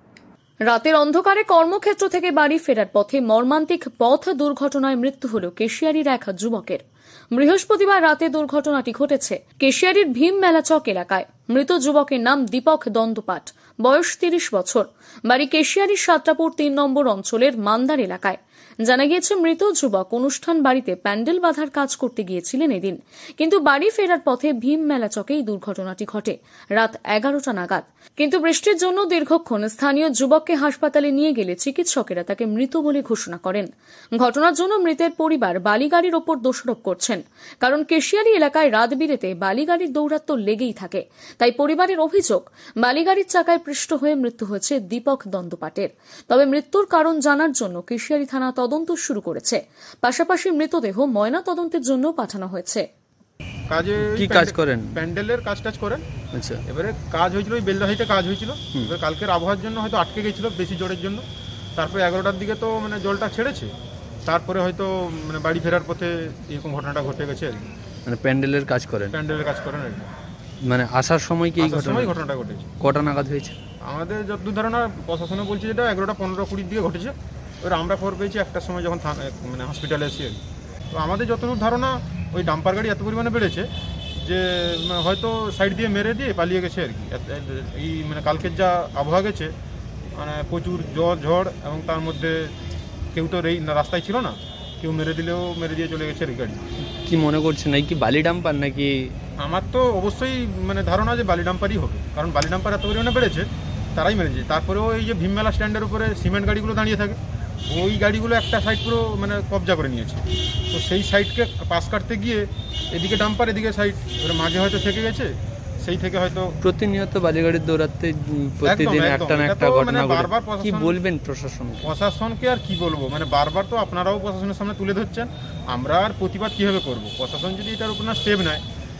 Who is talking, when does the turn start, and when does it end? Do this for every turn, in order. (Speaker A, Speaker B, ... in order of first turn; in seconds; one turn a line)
Speaker A: 0.7-52.9
Speaker B: 53.7-56.0
Speaker C: 54.0-55.0
Speaker C: 56.3-56.6
Speaker B: 56.7-61.2
Speaker B: 61.8-63.7
Speaker B: 64.2-67.7
Speaker C: 68.1-69.1
Speaker B: 69.1-70.1
Speaker C: 70.7-72.2
Speaker B: 71.6-72.7
Speaker C: 72.8-73.5
Speaker B: 73.9-80.4
Speaker B: 80.9-83.7
Speaker B: 84.2-89.5
Speaker B: 90.2-92.5
Speaker B: 93.1-96.6
Speaker C: 97.0-99.1
Speaker B: 99.4-115.3
Speaker B: 115.8-116.5
Speaker C: 116.6-121.9
Speaker B: 118.7-121.0
Speaker B: 121.8-128.6